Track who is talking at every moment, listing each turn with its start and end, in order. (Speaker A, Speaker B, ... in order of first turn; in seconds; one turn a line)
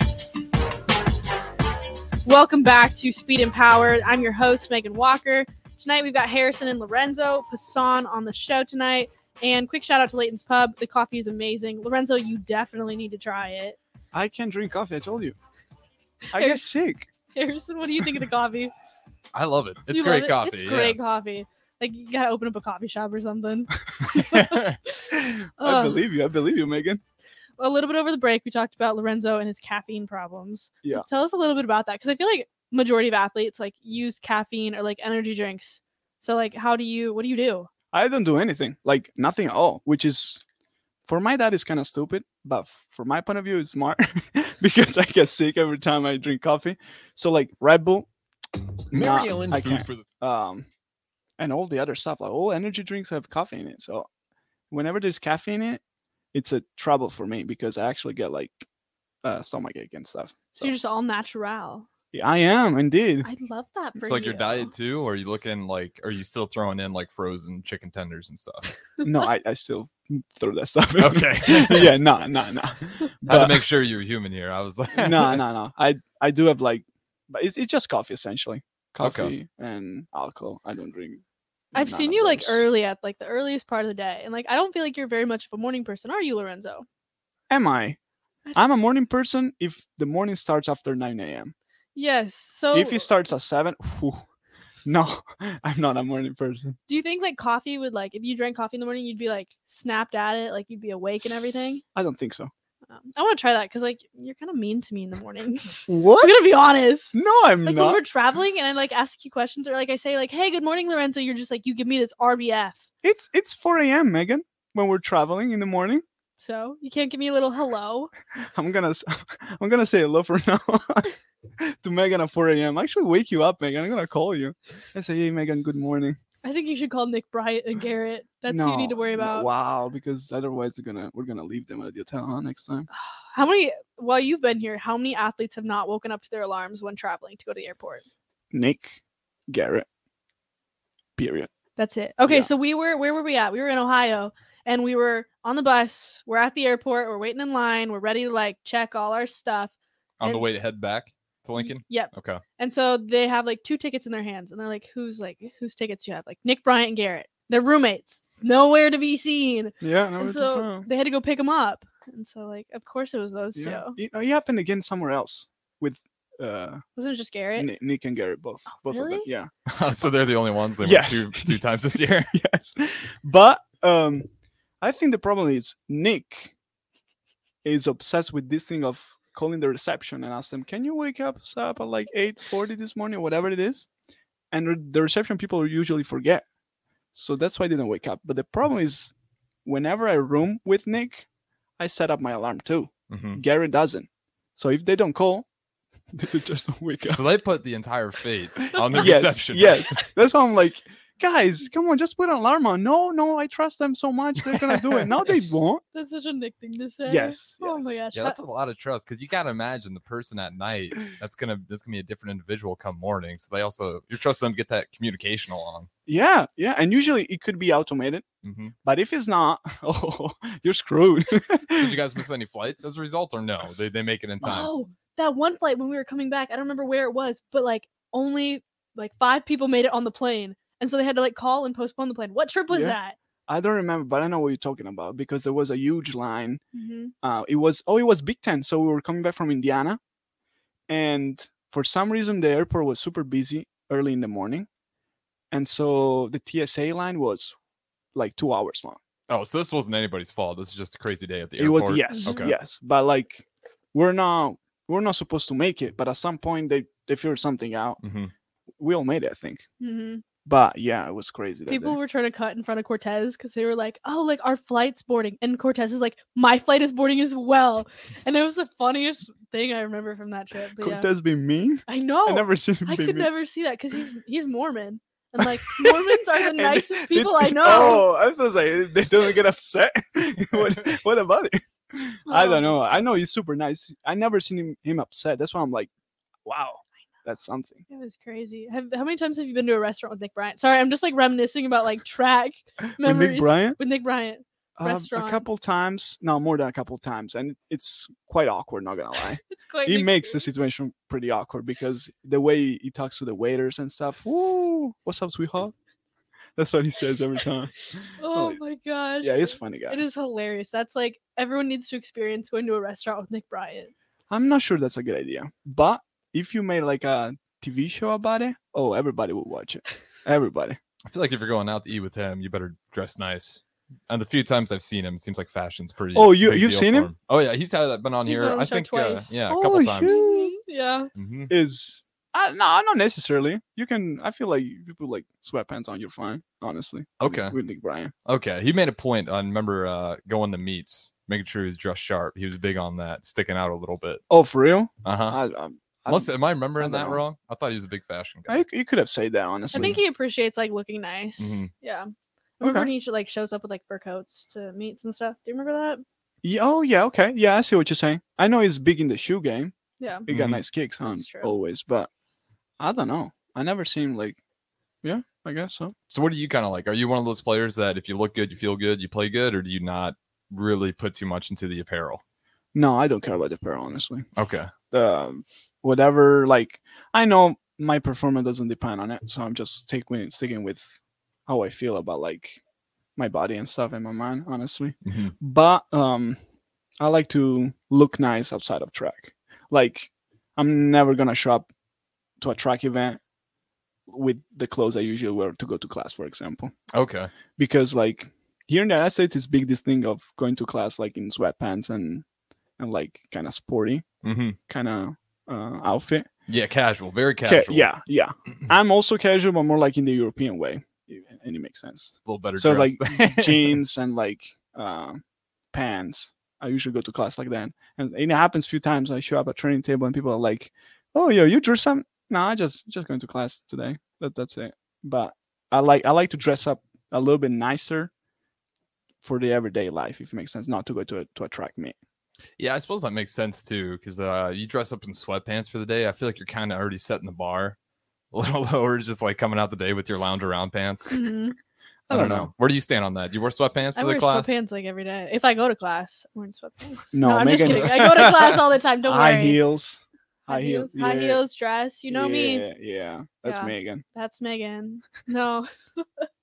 Speaker A: 2.2-13.8
Speaker B: 14.1-15.3
Speaker A: 16.3-16.6
Speaker B: 16.3-17.1
Speaker A: 17.3-18.7
Speaker C: 19.3-21.0
Speaker A: 19.9-26.0
Speaker C: 24.1-24.8
Speaker B: 25.1-27.0
Speaker A: 27.6-37.7
Speaker B: 37.9-40.4
Speaker B: 41.0-48.1
Speaker B: 48.9-50.7
Speaker C: 48.9-50.0
Speaker B: 51.4-54.1
Speaker B: 54.7-55.8
Speaker B: 56.3-58.6
Speaker B: 59.2-60.7
Speaker A: 60.5-61.9
Speaker B: 62.1-63.3
Speaker A: 63.2-64.7
Speaker C: 64.0-68.7
Speaker B: 69.0-73.6
Speaker C: 71.0-72.0
Speaker C: 73.3-75.4
Speaker B: 74.9-81.2
Speaker C: 79.0-79.3
Speaker B: 81.7-82.7
Speaker A: 81.7-86.8
Speaker B: 87.5-88.0
Speaker B: 88.5-91.5
Speaker A: 91.9-93.0
Speaker B: 92.7-94.2
Speaker B: 94.8-96.8
Speaker A: 96.9-101.8
Speaker B: 101.9-102.5
Speaker A: 102.9-112.8
Speaker B: 105.9-106.4
Speaker B: 107.1-108.0
Speaker B: 113.0-116.0
Speaker A: 116.4-118.1
Speaker B: 118.5-126.2
Speaker A: 126.4-129.5
Speaker B: 128.5-132.9
Speaker A: 132.9-138.0
Speaker B: 138.5-139.8
Speaker B: 141.2-141.5
Speaker A: 141.8-150.5
Speaker C: 150.2-152.4
Speaker A: 151.6-164.0
Speaker B: 159.8-160.9
Speaker B: 163.6-166.8
Speaker A: 166.9-167.7
Speaker B: 167.6-169.5
Speaker A: 168.8-169.3
Speaker C: 169.7-172.3
Speaker B: 170.8-171.6
Speaker B: 172.3-174.3
Speaker B: 174.8-176.5
Speaker B: 177.6-183.9
Speaker B: 184.5-186.4
Speaker B: 187.1-189.1
Speaker B: 189.7-191.3
Speaker B: 191.8-195.5
Speaker C: 193.1-193.4
Speaker B: 196.1-197.2
Speaker C: 197.1-199.9
Speaker B: 198.9-205.8
Speaker A: 205.9-208.4
Speaker B: 207.1-207.9
Speaker C: 208.1-215.9
Speaker B: 216.1-218.2
Speaker C: 218.4-218.7
Speaker B: 218.8-222.0
Speaker C: 221.7-224.7
Speaker A: 224.4-233.2
Speaker B: 232.7-233.0
Speaker B: 233.5-236.6
Speaker A: 236.7-237.1
Speaker B: 237.2-240.0
Speaker B: 240.9-244.7
Speaker B: 245.5-247.5
Speaker B: 248.1-249.0
Speaker C: 249.3-252.5
Speaker B: 251.6-258.0
Speaker A: 252.1-252.5
Speaker C: 258.0-258.3
Speaker B: 258.8-259.6
Speaker A: 259.8-260.2
Speaker B: 260.4-262.0
Speaker A: 261.7-271.1
Speaker B: 270.8-273.3
Speaker A: 271.9-278.1
Speaker B: 275.7-285.9
Speaker A: 282.3-282.9
Speaker B: 286.4-287.8
Speaker A: 287.9-295.4
Speaker B: 293.0-293.8
Speaker B: 294.8-305.7
Speaker A: 299.5-300.6
Speaker B: 306.6-308.6
Speaker A: 308.2-313.9
Speaker B: 309.2-310.1
Speaker B: 314.3-320.8
Speaker C: 321.1-330.2
Speaker B: 326.1-327.1
Speaker A: 328.2-329.4
Speaker B: 329.5-330.6
Speaker A: 330.0-331.1
Speaker C: 331.1-331.5
Speaker B: 331.5-338.1
Speaker C: 337.2-337.6
Speaker C: 338.2-344.2
Speaker B: 344.3-347.2
Speaker C: 345.0-345.4
Speaker C: 346.1-348.6
Speaker B: 348.5-350.0
Speaker A: 349.7-356.0
Speaker C: 349.7-350.0
Speaker C: 351.4-351.7
Speaker B: 352.6-352.9
Speaker B: 356.4-359.7
Speaker A: 360.0-360.3
Speaker B: 360.2-362.1
Speaker C: 360.3-360.6
Speaker A: 361.0-361.5
Speaker B: 362.8-364.4
Speaker B: 365.0-365.9
Speaker C: 366.1-372.2
Speaker B: 372.7-374.3
Speaker C: 374.4-374.7
Speaker B: 374.9-380.9
Speaker B: 381.5-382.6
Speaker B: 383.1-386.4
Speaker C: 385.0-385.3
Speaker B: 387.0-391.7
Speaker B: 392.4-393.2
Speaker B: 394.1-396.7
Speaker C: 396.9-397.3
Speaker B: 397.6-402.2
Speaker B: 402.8-404.0
Speaker C: 404.2-404.6
Speaker B: 404.7-406.2
Speaker C: 406.5-407.9
Speaker B: 407.4-415.2
Speaker C: 412.2-413.8
Speaker B: 415.7-428.1
Speaker B: 429.2-431.9
Speaker C: 432.6-437.8
Speaker C: 438.3-441.2
Speaker A: 441.1-441.6
Speaker B: 442.1-442.5
Speaker C: 442.1-444.5
Speaker A: 443.9-449.6
Speaker B: 447.1-451.4
Speaker A: 450.5-452.7
Speaker B: 452.1-454.0
Speaker A: 453.4-456.3